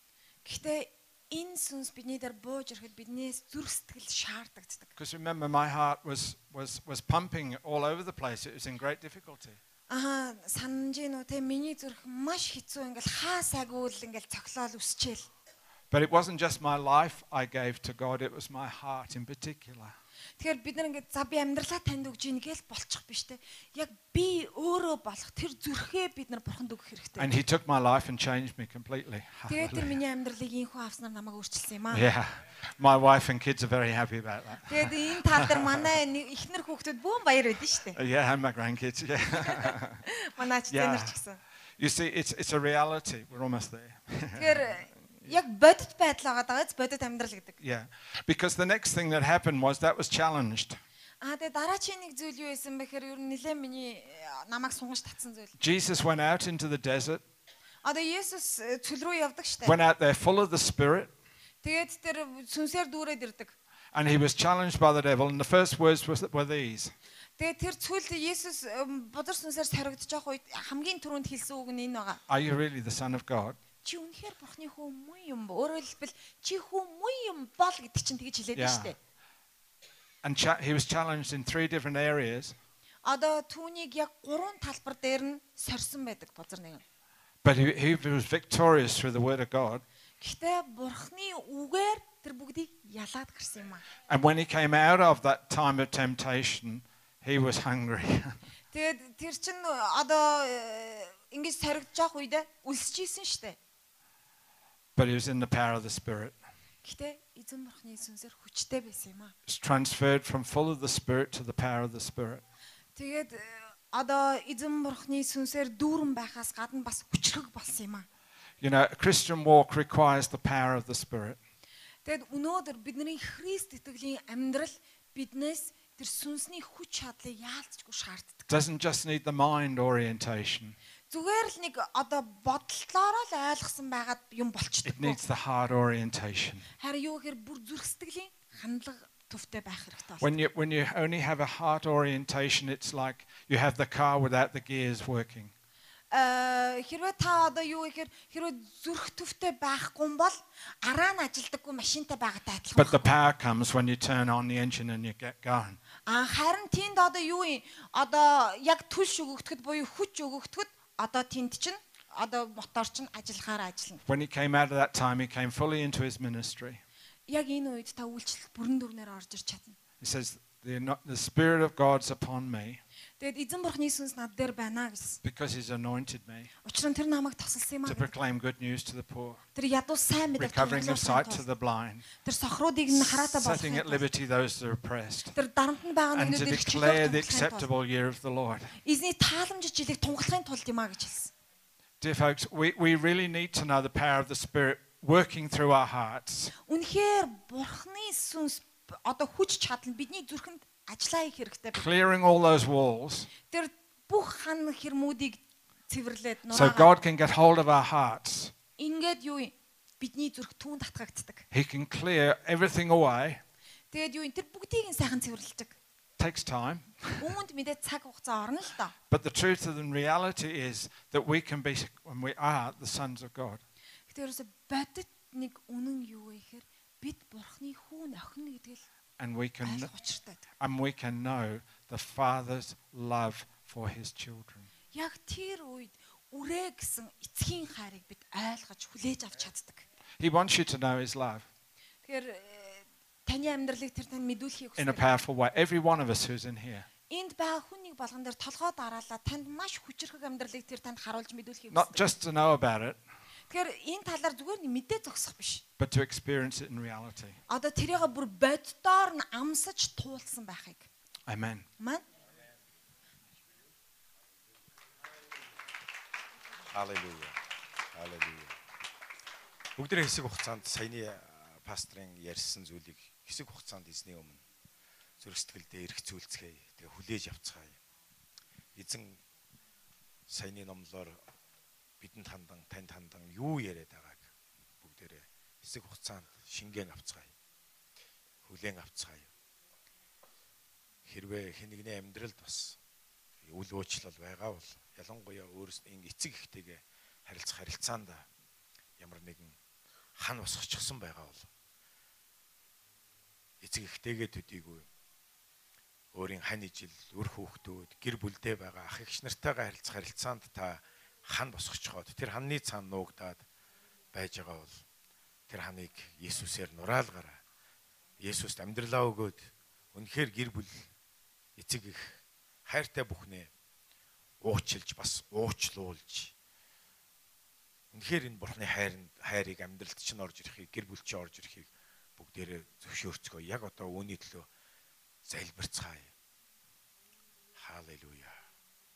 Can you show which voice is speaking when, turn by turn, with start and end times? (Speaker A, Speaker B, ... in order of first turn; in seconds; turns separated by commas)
Speaker A: 0.5-4.9, Speaker B: 5.0-9.6, Speaker A: 9.9-15.3, Speaker B: 15.9-19.9, Speaker A: 20.4-27.3, Speaker B: 27.2-30.0, Speaker A: 29.5-32.1, Speaker B: 31.9-35.9, Speaker A: 34.7-38.0, Speaker B: 38.0-40.1, Speaker A: 39.4-41.4, Speaker B: 40.7-41.2, Speaker B: 41.8-45.4, Speaker A: 44.4-47.6, Speaker B: 47.6-50.8, Speaker A: 51.2-55.5, Speaker B: 55.6-57.2, Speaker A: 57.8-59.8, Speaker B: 59.6-61.1, Speaker A: 61.6-63.5, Speaker B: 63.9-66.9, Speaker A: 67.4-72.2, Speaker B: 72.3-73.6, Speaker A: 73.8-79.0, Speaker B: 78.5-79.0, Speaker B: 80.2-82.6, Speaker A: 83.0-86.8, Speaker B: 87.4-89.8, Speaker A: 90.2-93.8, Speaker B: 94.1-98.4, Speaker A: 98.7-103.6, Speaker B: 105.0-106.4, Speaker A: 106.8-109.3, Speaker B: 109.5-112.4, Speaker A: 113.0-118.1, Speaker B: 118.6-121.4, Speaker A: 122.0-128.5, Speaker B: 128.5-130.8, Speaker A: 131.1-135.2, Speaker B: 134.9-136.7, Speaker A: 136.8-140.3, Speaker B: 140.2-145.5, Speaker A: 146.1-153.1, Speaker B: 152.8-155.8, Speaker A: 156.1-164.0, Speaker B: 164.1-166.8, Speaker A: 167.3-169.8, Speaker B: 170.0-172.8, Speaker A: 173.2-175.2, Speaker B: 175.2-176.5, Speaker A: 176.6-178.1, Speaker B: 177.9-179.4, Speaker A: 179.6-181.4, Speaker B: 180.4-182.1, Speaker A: 182.1-184.1, Speaker B: 182.9-185.3, Speaker A: 185.3-187.7, Speaker B: 186.1-188.8, Speaker A: 188.8-191.3, Speaker B: 192.0-196.5, Speaker A: 196.6-201.8, Speaker B: 201.7-203.3, Speaker A: 203.5-206.9, Speaker B: 206.5-208.5, Speaker A: 208.8-211.5, Speaker B: 211.5-213.4, Speaker A: 213.9-215.8, Speaker B: 216.2-217.3, Speaker A: 217.2-218.9, Speaker B: 219.1-223.6, Speaker A: 224.1-228.8, Speaker B: 229.2-229.9, Speaker A: 229.6-230.5, Speaker B: 230.6-234.7, Speaker A: 234.9-239.9, Speaker B: 240.2-241.5, Speaker A: 242.0-245.1, Speaker B: 244.8-246.9, Speaker A: 247.1-252.1, Speaker B: 251.7-253.0, Speaker A: 253.5-255.6, Speaker B: 255.8-257.4, Speaker A: 257.5-260.9, Speaker B: 261.3-261.7, Speaker A: 261.8-262.0, Speaker C: 266.7-267.4, Speaker C: 267.9-268.6, Speaker C: 269.8-274.4, Speaker C: 275.2-277.8, Speaker C: 278.8-279.2, Speaker C: 280.3-281.2, Speaker C: 282.0-284.3, Speaker C: 284.8-287.3, Speaker C: 288.4-289.3, Speaker C: 291.1-292.8, Speaker C: 293.4-298.3, Speaker C: 299.0-299.6, Speaker C: 300.2-301.5, Speaker C: 303.6-304.9, Speaker C: 306.1-313.4, Speaker C: 314.1-314.8, Speaker C: 315.5-317.4, Speaker C: 318.2-320.9, Speaker C: 321.6-323.5, Speaker C: 324.4-326.3, Speaker C: 327.9-334.5, Speaker C: 335.2-336.1, Speaker C: 337.6-338.4